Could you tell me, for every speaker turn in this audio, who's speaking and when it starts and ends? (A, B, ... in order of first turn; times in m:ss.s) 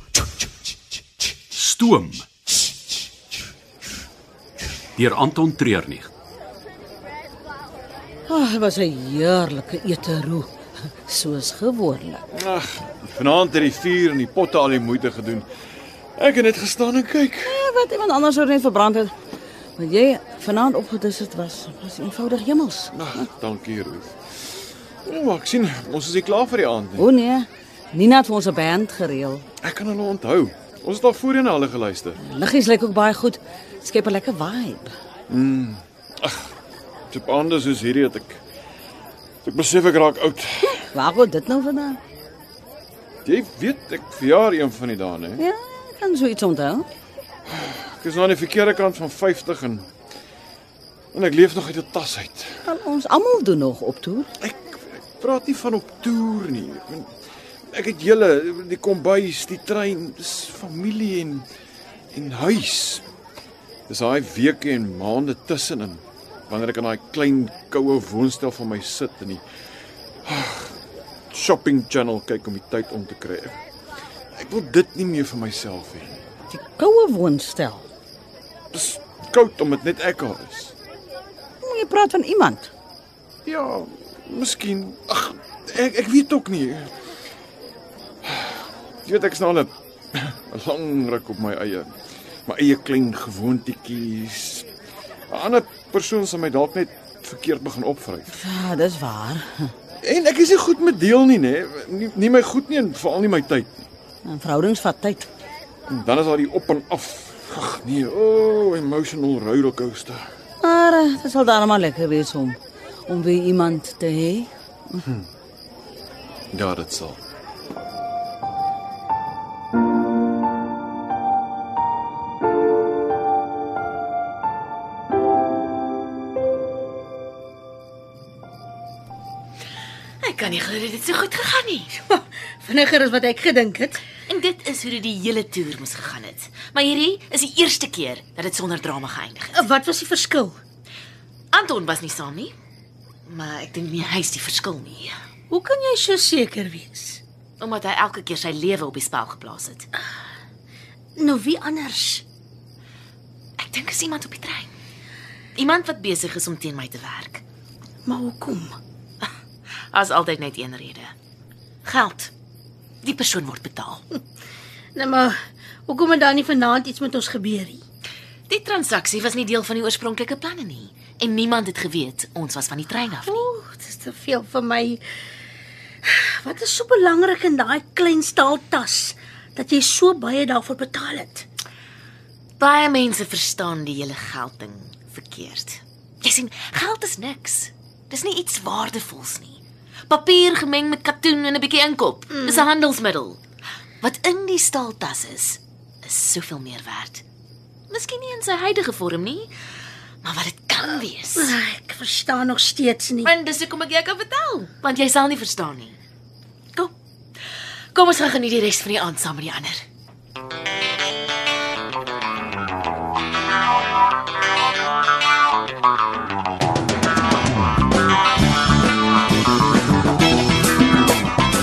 0:01.5-0:02.2 A
0:05.0-0:06.1 A
0:08.3-0:10.5 B
0:11.1-0:12.2 B
0:12.3-0:15.5 C
0:16.2-0:17.6 C
0:17.4-0:19.1 B
0:19.8-0:23.3 B
0:22.9-0:24.2 C
0:25.1-0:27.1 C
0:27.0-0:29.4 B
0:29.6-0:32.2 C
0:32.2-0:34.9 B
0:35.3-0:36.5 C
0:37.1-0:38.4 C
0:39.4-0:40.8 C
0:40.8-0:42.0 B
0:43.2-0:45.4 C
0:45.4-0:46.9 B
0:47.5-0:49.9 C
0:51.1-0:52.6 C
0:52.6-0:54.3 B
0:54.4-0:57.1 C
0:57.7-1:01.4 C
1:02.1-1:03.0 C
1:03.9-1:09.4 C
1:10.3-1:10.8 C
1:11.3-1:13.6 C
1:14.4-1:16.2 C
1:16.5-1:17.9 B
1:18.7-1:20.7 C
1:21.6-1:22.7 B
1:23.5-1:26.9 C
1:28.2-1:31.9 C
1:32.5-1:34.7 C
1:35.3-1:38.3 C
1:38.3-1:39.7 B
1:40.0-1:43.9 C
1:44.2-1:45.3 B
1:45.9-1:50.3 C
1:50.6-1:55.0 B
1:56.5-1:57.2 C
2:10.2-2:11.9 D
2:12.0-2:14.0 E
2:14.3-2:19.7 D
2:19.5-2:20.6 E
2:21.5-2:22.5 D
2:23.3-2:25.1 D
2:25.5-2:27.2 E
2:27.6-2:29.9 D
2:31.2-2:32.2 E
2:33.6-2:34.7 D
2:35.6-2:37.4 D
2:38.1-2:38.8 E
2:39.9-2:41.1 D
2:41.8-2:42.3 D
2:43.0-2:44.0 D
2:45.0-2:45.3 E
2:45.9-2:47.8 E
2:48.5-2:53.4 D
2:53.2-2:55.0 E
2:56.0-3:01.5 E
3:02.6-3:13.4 D
3:14.0-3:17.2 D
3:17.9-3:19.5 D
3:20.2-3:21.5 D
3:21.4-3:23.3 E
3:23.2-3:26.0 D
3:28.0-3:29.8 D